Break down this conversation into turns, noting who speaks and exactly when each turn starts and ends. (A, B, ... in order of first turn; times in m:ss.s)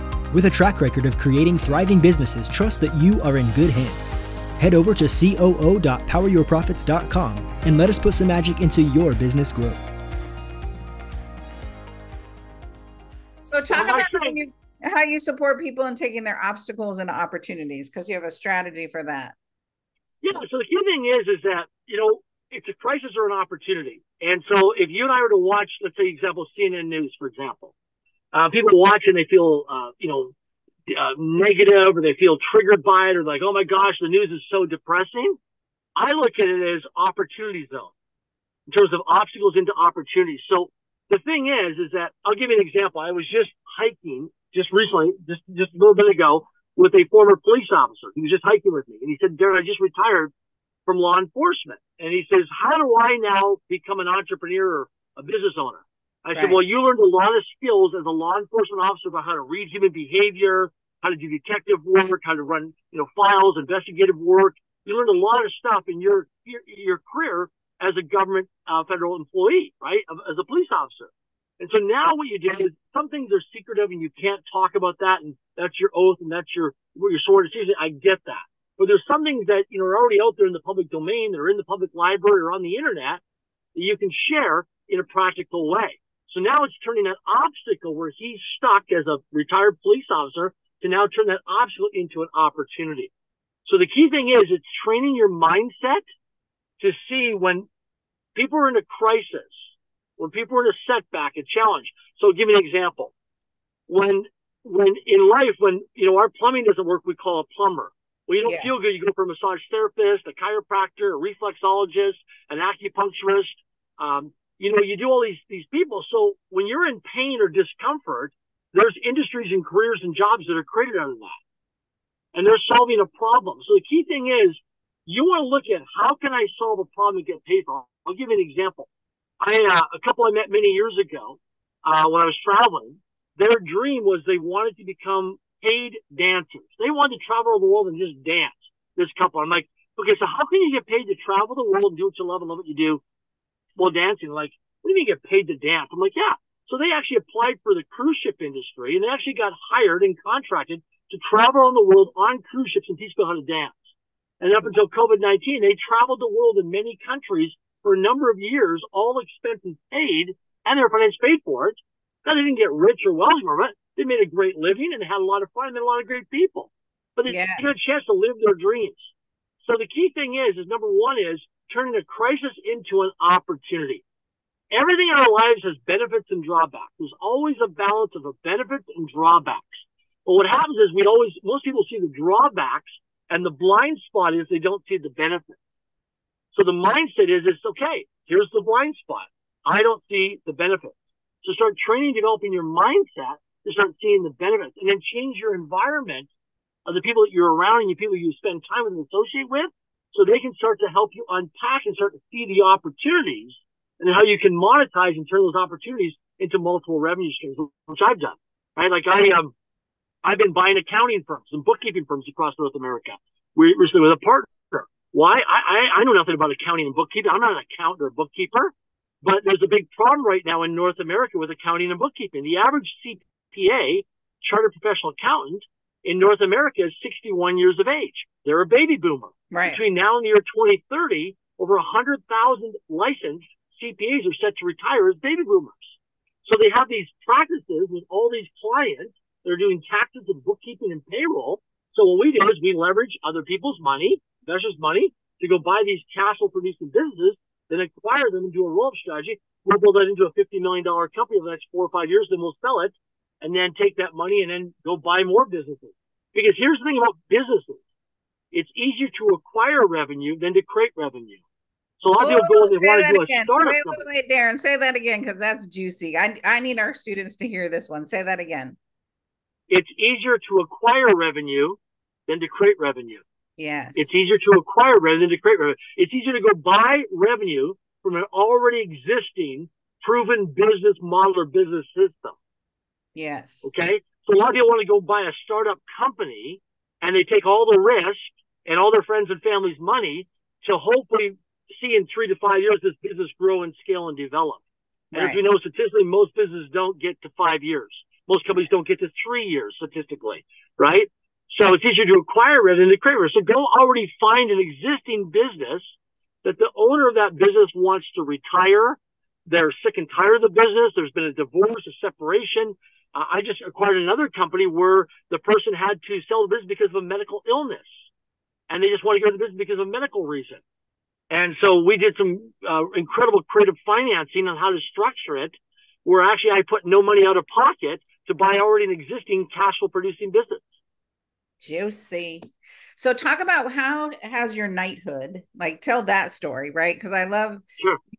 0:00.3-0:09.8 A
0:13.4-0:19.4 B
0:13.7-0:14.4 C
0:20.2-0:27.7 C
0:28.3-0:30.3 C
0:30.9-0:35.4 C
0:36.0-0:37.9 C
0:38.7-0:50.3 C
0:50.9-1:23.2 C
0:56.3-0:56.6 B
1:23.7-1:33.1 C
1:33.6-1:36.1 C
1:36.8-1:37.7 C
1:38.4-1:43.1 C
1:43.9-2:01.4 C
1:48.4-1:48.7 B
2:02.3-2:08.9 C
2:09.4-2:23.0 C
2:23.8-2:33.8 C
2:34.4-2:54.0 C
2:47.3-2:47.9 B
2:54.7-3:05.6 C
3:06.5-3:16.3 C
3:16.9-3:29.5 C
3:30.2-4:17.8 C
3:49.5-3:49.8 B
4:18.5-4:21.4 C
4:22.0-4:24.0 C
4:22.2-4:28.8 B
4:29.7-4:33.2 C
4:33.6-4:34.2 B
4:34.0-4:42.4 C
4:43.1-4:43.7 B
4:43.6-5:18.0 C
4:55.1-4:55.4 B
5:18.7-5:20.6 C
5:21.3-5:30.7 C
5:31.6-5:32.4 B
5:33.0-5:37.6 B